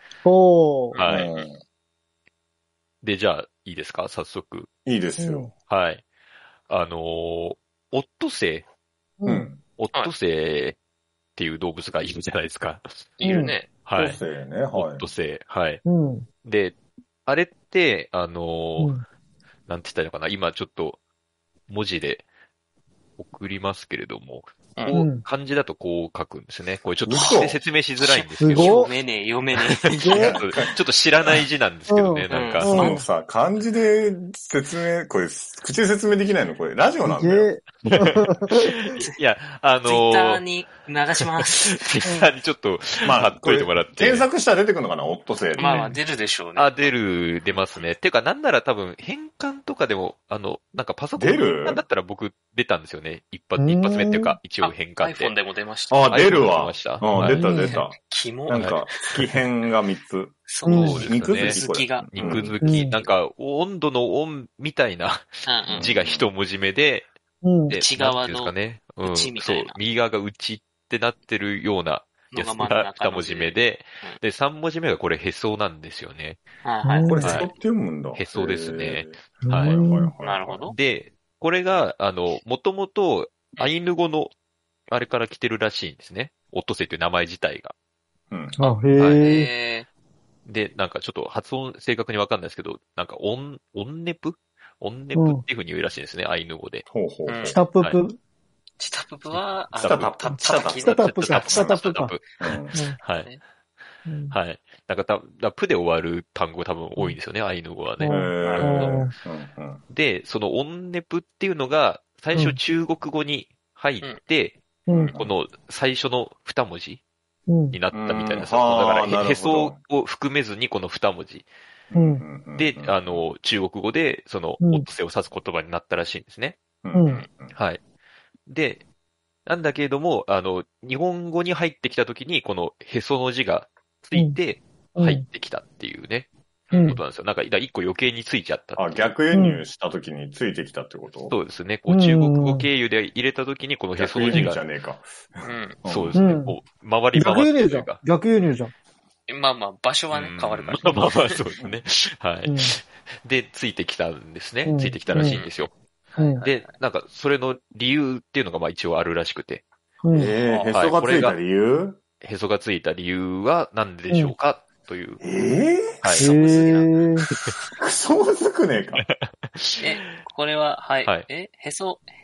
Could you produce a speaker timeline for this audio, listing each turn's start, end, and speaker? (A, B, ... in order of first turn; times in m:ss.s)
0:00.2-0:01.0 A
0:00.9-0:01.5 B
0:01.0-0:01.3 C
0:01.0-0:01.6 D
0:03.0-0:04.7 C
0:04.8-0:05.5 D
0:05.2-0:05.5 A
0:05.7-0:06.0 C
0:06.7-0:08.7 C
0:09.2-0:09.5 A
0:09.3-0:09.6 D
0:09.8-0:10.8 C
0:11.4-0:13.2 C
0:13.2-0:13.7 B
0:13.2-0:13.6 A
0:13.9-0:14.2 C
0:14.0-0:15.1 D
0:14.7-0:15.8 C
0:15.8-0:16.3 A
0:16.4-0:18.9 C
0:18.8-0:19.0 A
0:19.7-0:21.0 C
0:21.7-0:22.2 C
0:23.2-0:28.9 C
0:24.9-0:25.2 A
0:27.0-0:27.6 D
0:28.0-0:30.1 B
0:28.4-0:28.9 A
0:29.6-0:32.8 C
0:29.9-0:30.4 A
0:30.1-0:31.4 D
0:31.9-0:33.0 A
0:32.3-0:33.0 B
0:32.6-0:37.5 D
0:37.1-0:38.9 A
0:37.8-0:40.4 C
0:39.8-0:41.9 B
0:41.4-0:44.3 C
0:42.1-0:42.3 A
0:43.0-0:45.9 D
0:45.6-0:46.9 B
0:46.6-0:55.3 C
0:47.5-0:47.9 B
0:51.2-0:51.8 D
0:53.6-0:54.4 A
0:54.6-0:56.4 B
0:55.9-1:02.5 D
0:56.1-0:57.4 C
0:57.2-0:57.8 A
0:57.5-0:59.3 B
0:58.5-0:58.8 C
1:00.5-1:03.1 B
1:00.6-1:01.1 A
1:00.7-1:07.1 C
1:02.6-1:02.9 A
1:05.4-1:05.9 B
1:05.7-1:06.3 D
1:07.4-1:07.8 A
1:07.7-1:16.4 C
1:07.7-1:09.8 B
1:12.3-1:14.2 B
1:16.6-1:17.3 B
1:16.8-1:17.4 A
1:17.0-1:20.8 D
1:17.2-1:17.5 C
1:18.2-1:19.8 C
1:19.4-1:20.1 A
1:20.2-1:20.8 B
1:20.7-1:24.3 C
1:24.9-1:27.7 C
1:28.3-1:28.8 D
1:28.6-1:29.5 A
1:29.0-1:29.3 C
1:29.2-1:29.9 B
1:30.4-1:36.8 C
1:35.2-1:35.4 A
1:36.9-1:37.6 D
1:37.3-1:37.6 B
1:37.5-1:38.2 A
1:38.8-1:41.9 B
1:39.8-1:41.7 D
1:39.8-1:40.1 C
1:40.8-1:42.2 A
1:41.0-1:43.3 C
1:42.4-1:42.8 D
1:42.7-1:43.0 A
1:44.1-1:44.4 A
1:44.3-1:48.1 C
1:48.0-1:49.1 A
1:48.1-1:49.8 D
1:48.4-1:49.0 B
1:49.9-1:54.6 C
1:52.3-1:52.6 A
1:54.9-1:55.2 A
1:54.9-1:55.3 D
1:55.1-1:57.0 C
1:57.5-1:57.8 A
1:57.7-2:01.5 C
1:57.9-1:59.8 D
2:01.9-2:03.2 D
2:02.0-2:02.2 A
2:02.6-2:06.6 C
2:04.6-2:04.9 A
2:06.8-2:07.5 D
2:06.9-2:07.2 A
2:07.5-2:07.8 C
2:08.5-2:08.8 C
2:09.5-2:19.0 C
2:15.0-2:15.2 A
2:16.7-2:17.0 B
2:18.8-2:21.4 D
2:19.3-2:19.6 A
2:21.3-2:24.6 C
2:21.9-2:22.7 A
2:24.0-2:26.2 D
2:25.4-2:25.8 B
2:25.9-2:28.0 C
2:26.2-2:26.6 A
2:27.2-2:28.7 A
2:29.3-2:31.4 B
2:30.1-2:35.7 C
2:32.5-2:32.7 A
2:34.6-2:35.4 A
2:35.2-2:36.7 B
2:36.2-2:36.4 A
2:36.4-2:39.6 C
2:40.0-2:40.4 A
2:40.1-2:42.0 D
2:40.3-2:40.8 B
2:40.7-2:41.4 C
2:42.2-2:45.2 C
2:45.2-2:46.1 D
2:46.0-2:46.3 C
2:46.2-2:46.9 B
2:46.2-2:47.3 A
2:47.8-2:49.0 D
2:49.1-2:50.0 C
2:49.8-2:52.1 B